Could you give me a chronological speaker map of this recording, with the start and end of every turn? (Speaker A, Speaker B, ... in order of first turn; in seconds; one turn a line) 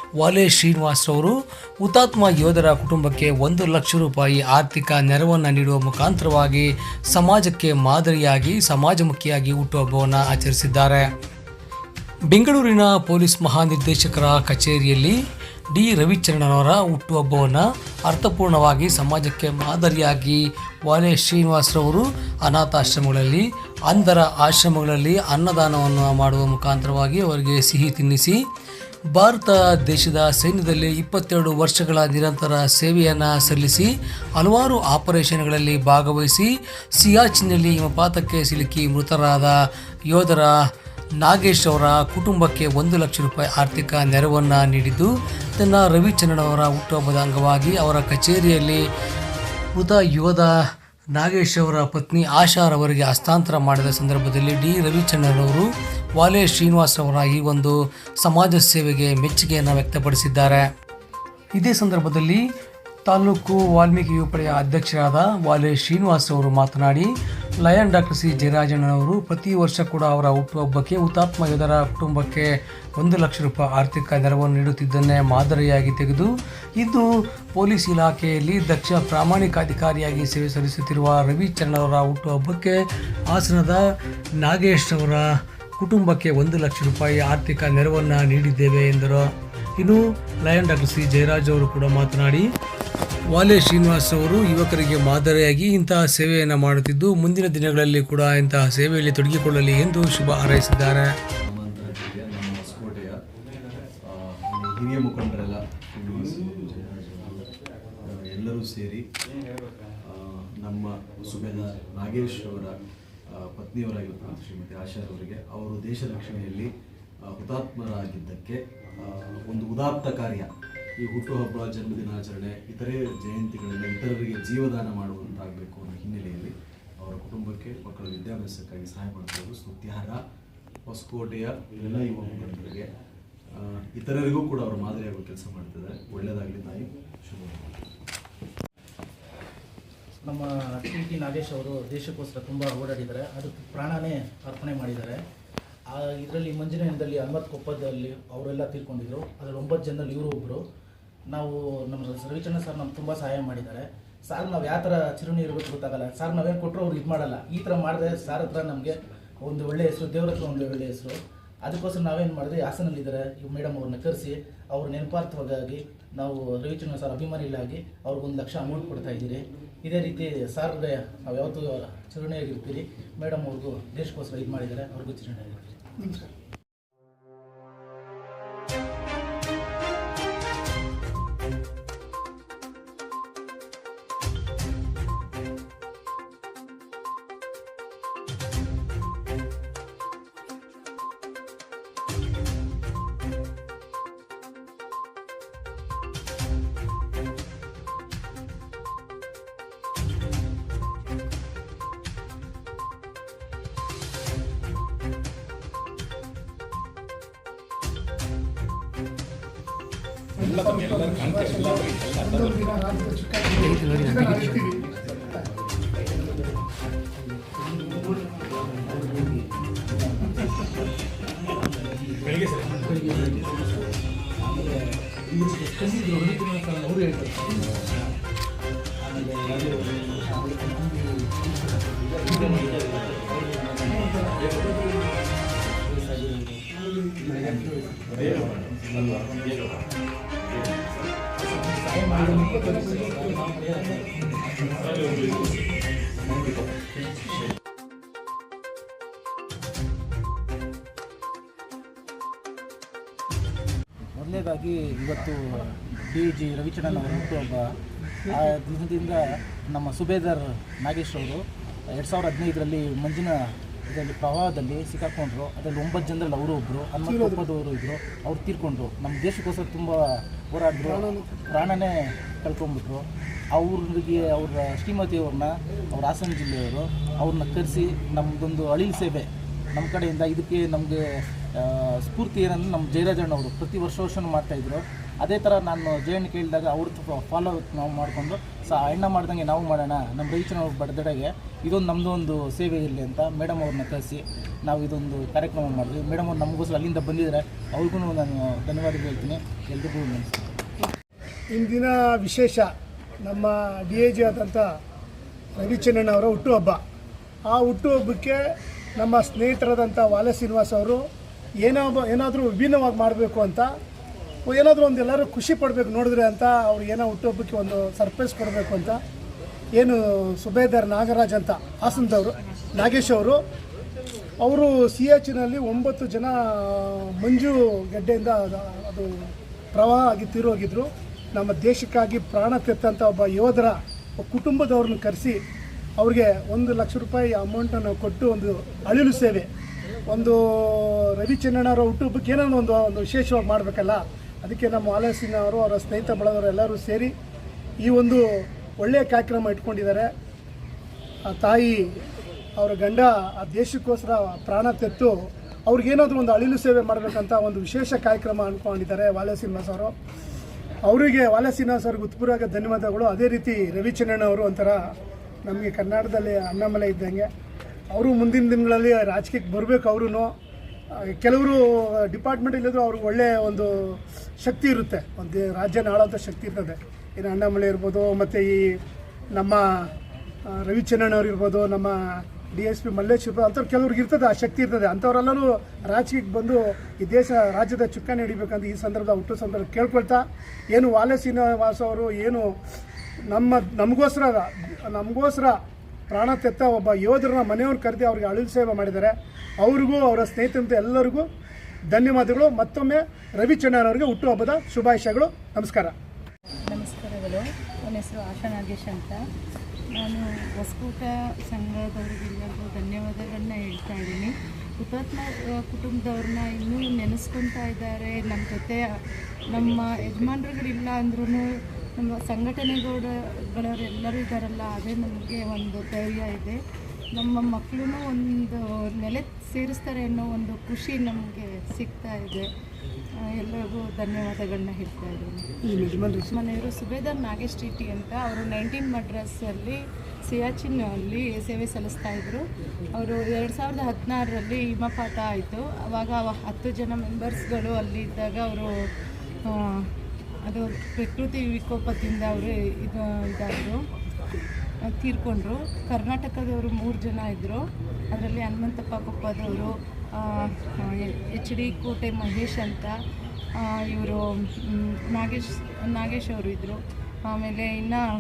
Speaker A: 0.2-11.1
Speaker A: 12.3-15.2
Speaker A: 15.7-28.4
Speaker A: 29.1-39.5
Speaker A: 40.1-40.5
Speaker A: 41.2-48.8
Speaker A: 49.8-50.5
Speaker A: 51.1-60.6
Speaker A: 61.5-62.4
Speaker A: 63.1-72.5
Speaker A: 73.0-83.8
Speaker A: 84.4-85.3
Speaker A: 85.8-89.3
Speaker A: 89.8-92.5
Speaker A: 93.3-101.1
Speaker B: 101.4-103.2
Speaker B: 104.0-107.5
Speaker B: 108.0-109.1
Speaker B: 110.0-112.8
Speaker B: 113.3-116.7
Speaker B: 117.2-130.2
Speaker B: 130.9-132.9
Speaker B: 133.5-137.7
Speaker C: 140.2-145.2
Speaker C: 145.9-150.7
Speaker C: 151.3-175.8
Speaker D: 176.0-176.3
Speaker D: 210.4-215.4
Speaker A: 213.7-214.6
Speaker C: 217.5-228.1
Speaker C: 229.0-234.7
Speaker B: 234.3-234.8
Speaker C: 235.5-239.5
Speaker B: 238.2-238.7
Speaker B: 239.5-239.8
Speaker B: 240.4-240.8
Speaker C: 241.4-245.3
Speaker D: 242.2-243.5
Speaker B: 246.2-247.4
Speaker C: 254.1-300.5
Speaker D: 267.0-267.4
Speaker D: 270.8-271.3
Speaker D: 301.5-302.7
Speaker D: 303.2-304.7
Speaker D: 305.6-306.8
Speaker D: 307.5-308.4
Speaker D: 309.0-311.0
Speaker D: 311.6-313.7
Speaker D: 314.4-319.0
Speaker D: 319.8-323.4
Speaker D: 324.4-335.4
Speaker D: 336.0-339.5
Speaker D: 340.1-347.1
Speaker D: 347.8-350.1
Speaker D: 351.3-351.9
Speaker D: 352.6-359.9
Speaker D: 360.9-364.8
Speaker D: 365.4-367.3
Speaker D: 367.9-370.3
Speaker D: 371.1-378.8
Speaker D: 379.4-379.9
Speaker D: 380.5-392.5
Speaker D: 393.3-395.6
Speaker D: 396.1-401.3
Speaker D: 401.9-405.9
Speaker E: 406.7-409.2
Speaker E: 410.0-418.9
Speaker E: 419.5-426.6
Speaker E: 427.1-432.5
Speaker E: 433.4-435.4
Speaker D: 435.6-436.3
Speaker E: 436.3-448.7
Speaker E: 449.4-449.9
Speaker E: 450.4-453.8
Speaker E: 454.9-462.9
Speaker E: 463.6-468.0